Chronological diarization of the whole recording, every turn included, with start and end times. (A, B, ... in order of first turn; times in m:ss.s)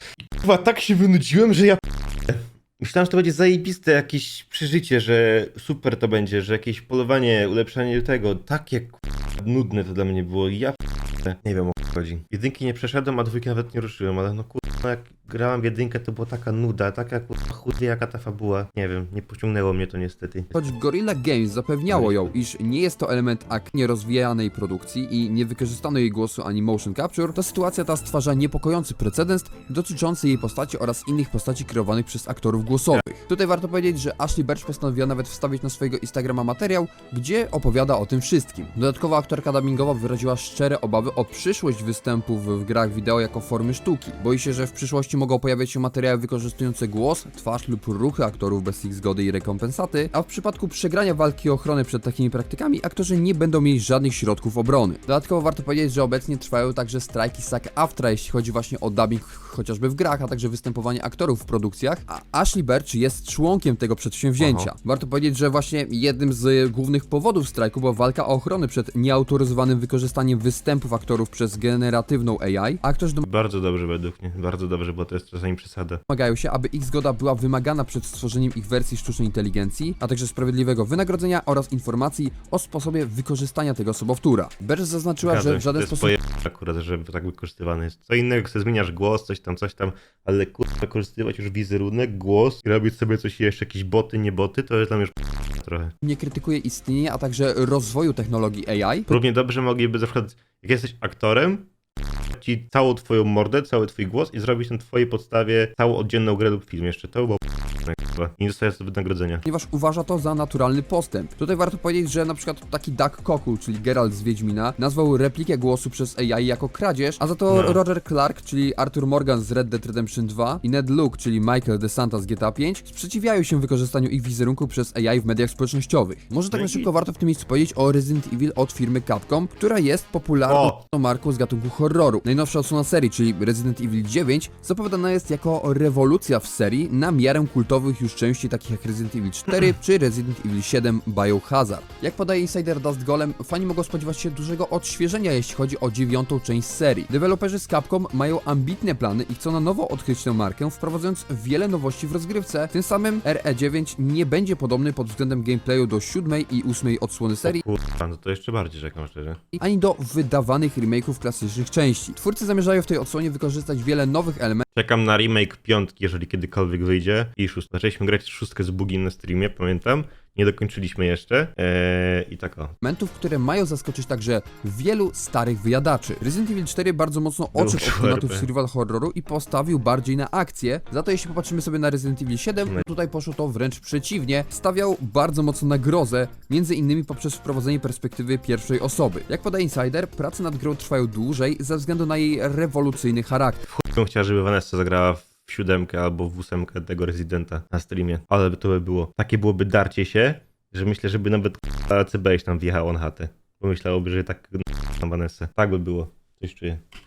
0:00.4-0:20.6 A
0:20.5-1:13.2 B
0:21.9-0:22.3 A
1:04.4-1:04.7 A
1:13.2-1:16.0 A
1:16.1-1:26.1 B
1:25.2-1:35.9 A
1:36.0-1:39.2 B
1:39.1-1:41.7 A
1:42.3-1:49.4 A
1:49.4-2:37.6 B
1:57.5-1:57.8 A
2:06.5-2:06.9 A
2:10.5-2:10.8 A
2:37.4-2:39.4 A
2:39.6-2:44.6 B
2:44.8-2:52.7 A
2:52.8-3:13.6 B
2:57.5-2:58.5 A
3:13.7-3:26.8 A